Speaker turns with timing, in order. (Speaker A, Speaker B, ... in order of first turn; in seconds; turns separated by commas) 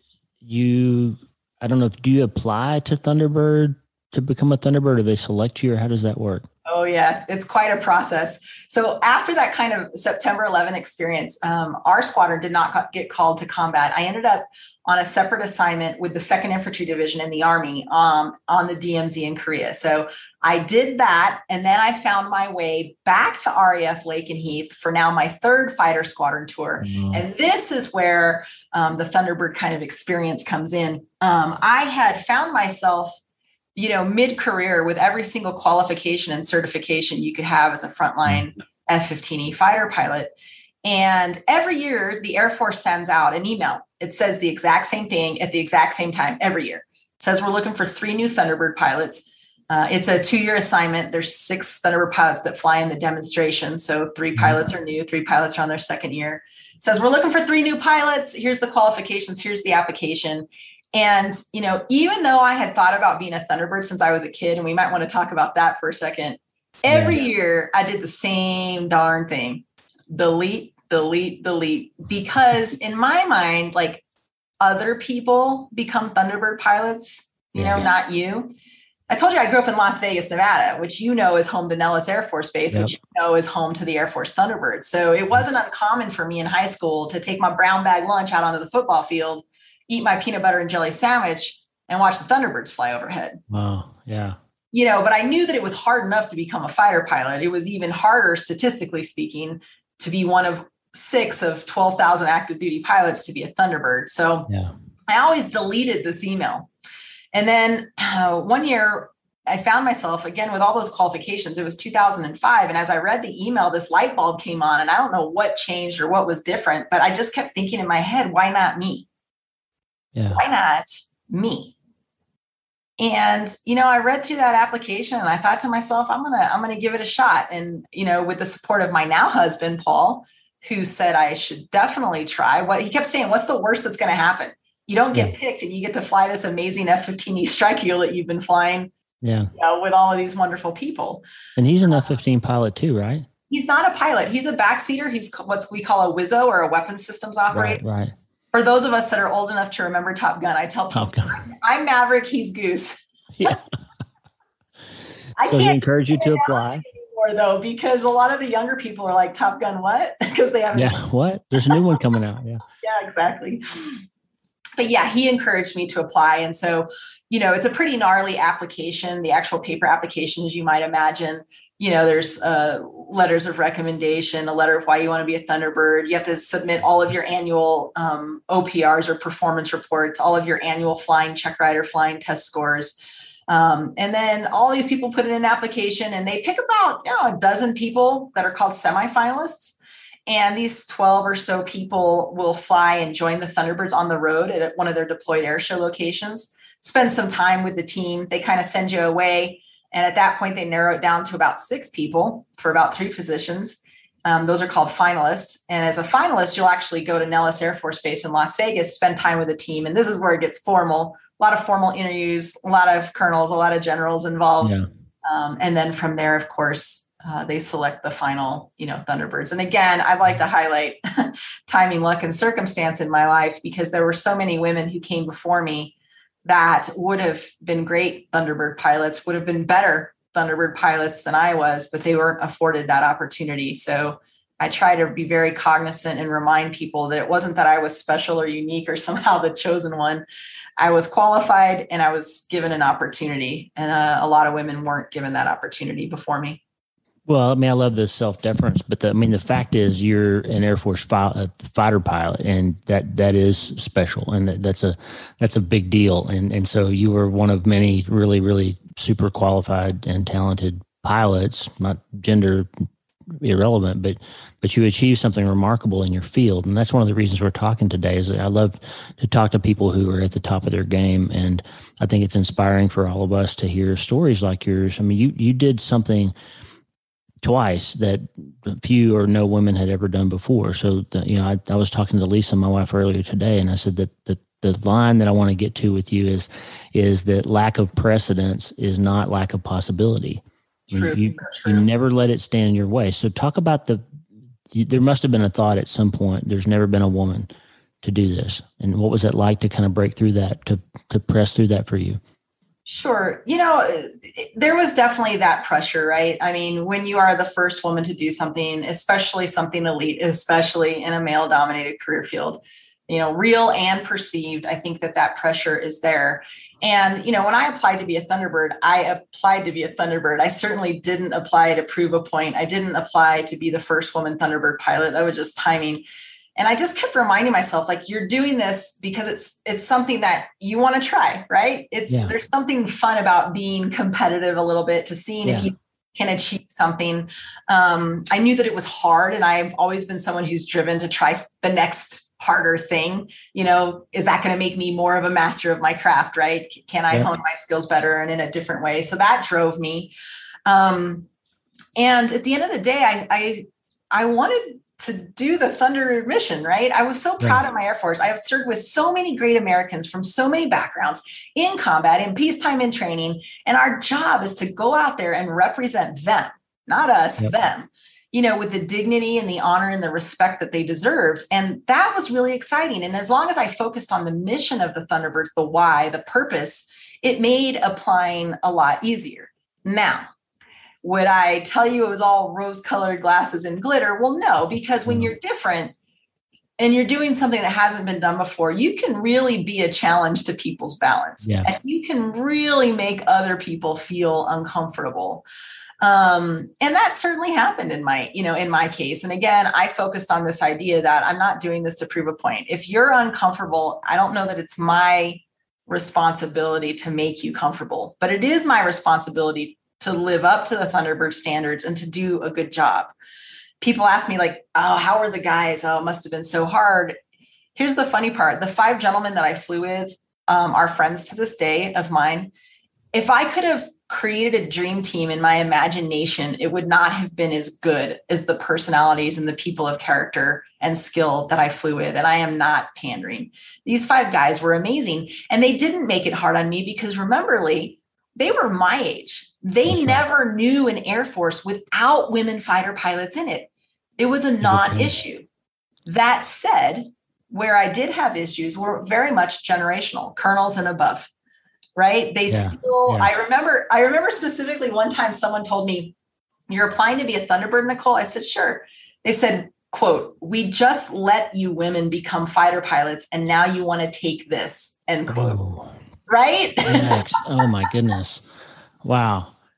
Speaker A: 0.4-6.5, Speaker B: 6.7-33.1, Speaker A: 26.8-27.2, Speaker B: 33.8-40.3, Speaker B: 40.8-74.0, Speaker A: 66.9-67.2, Speaker B: 74.6-78.5, Speaker A: 77.5-77.9, Speaker B: 79.1-93.4, Speaker A: 93.5-94.4, Speaker B: 94.7-104.5, Speaker B: 105.1-106.7, Speaker B: 107.3-119.1, Speaker A: 120.1-120.4, Speaker B: 120.3-121.7, Speaker B: 123.0-138.9, Speaker A: 139.2-139.5, Speaker B: 139.5-141.2, Speaker A: 141.6-143.3, Speaker B: 143.5-147.8, Speaker A: 147.5-148.1, Speaker B: 148.5-153.6, Speaker A: 150.9-151.3, Speaker B: 155.4-161.0, Speaker A: 155.4-156.8, Speaker A: 160.7-162.6, Speaker B: 162.8-164.0, Speaker B: 164.8-183.0, Speaker B: 183.5-225.9, Speaker A: 214.6-214.9, Speaker B: 226.4-240.2, Speaker B: 240.8-246.6, Speaker A: 247.3-262.7, Speaker A: 263.4-276.3, Speaker A: 277.4-294.0, Speaker B: 290.9-291.9, Speaker A: 294.7-297.5, Speaker A: 298.0-302.2, Speaker B: 302.9-326.0, Speaker B: 326.6-350.1, Speaker A: 335.4-335.7, Speaker B: 350.6-351.3, Speaker B: 351.9-380.2, Speaker B: 381.0-385.9, Speaker B: 386.8-395.4, Speaker A: 391.4-391.7, Speaker B: 396.0-413.1, Speaker B: 413.8-417.1, Speaker B: 417.8-422.5, Speaker B: 423.1-445.5, Speaker A: 439.9-440.2, Speaker A: 444.6-445.1, Speaker B: 446.1-451.3, Speaker B: 451.9-456.1, Speaker A: 452.5-453.3, Speaker B: 456.7-465.6, Speaker A: 465.3-465.9, Speaker B: 466.3-467.2, Speaker A: 466.8-468.4, Speaker A: 469.0-469.5